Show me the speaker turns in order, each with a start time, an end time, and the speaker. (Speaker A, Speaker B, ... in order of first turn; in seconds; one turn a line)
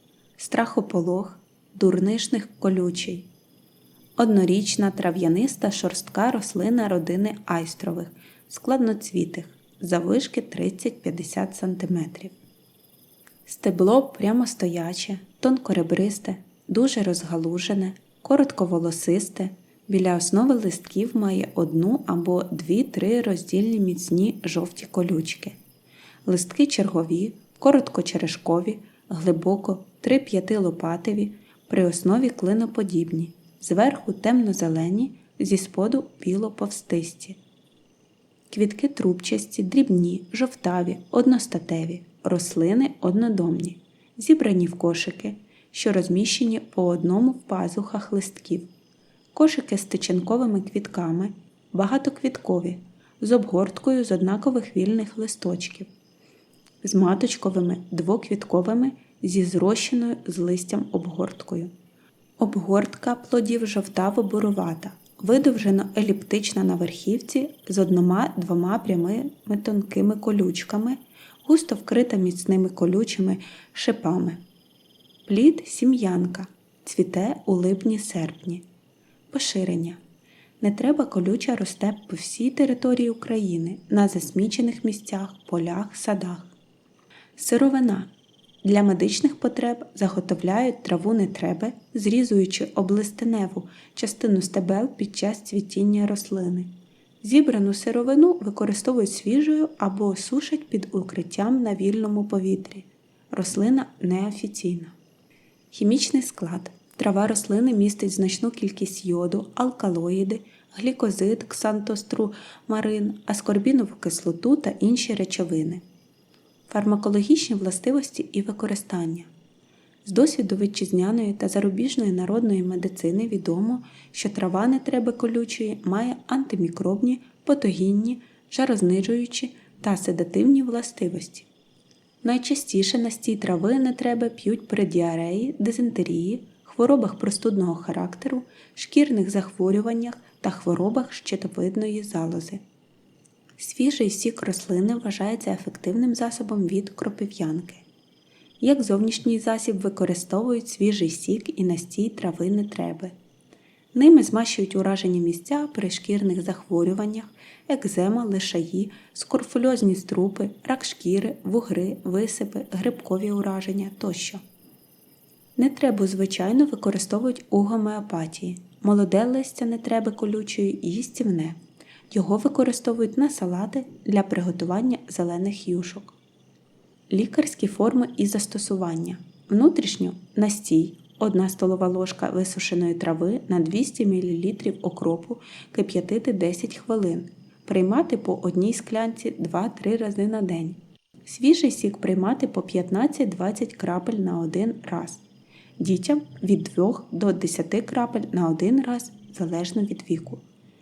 Speaker A: 0.4-3.3
Speaker A: 4.2-12.3
Speaker A: 13.4-25.6
Speaker A: 26.2-37.4
Speaker A: 38.5-48.7
Speaker A: 49.3-55.9
Speaker A: 56.8-61.7
Speaker A: 62.4-74.4
Speaker A: 75.3-78.6
Speaker A: 79.3-80.0
Speaker A: 80.6-86.5
Speaker A: 87.4-88.1
Speaker A: 88.6-96.7
Speaker A: 97.2-104.9
Speaker A: 105.7-115.8
Speaker A: 116.7-119.3
Speaker A: 120.0-131.5
Speaker A: 132.2-142.6
Speaker A: 143.6-147.8
Speaker A: 148.6-153.1
Speaker A: 153.9-164.4
Speaker A: 165.6-171.6
Speaker A: 172.1-176.1
Speaker A: 177.1-195.2
Speaker A: 195.8-200.4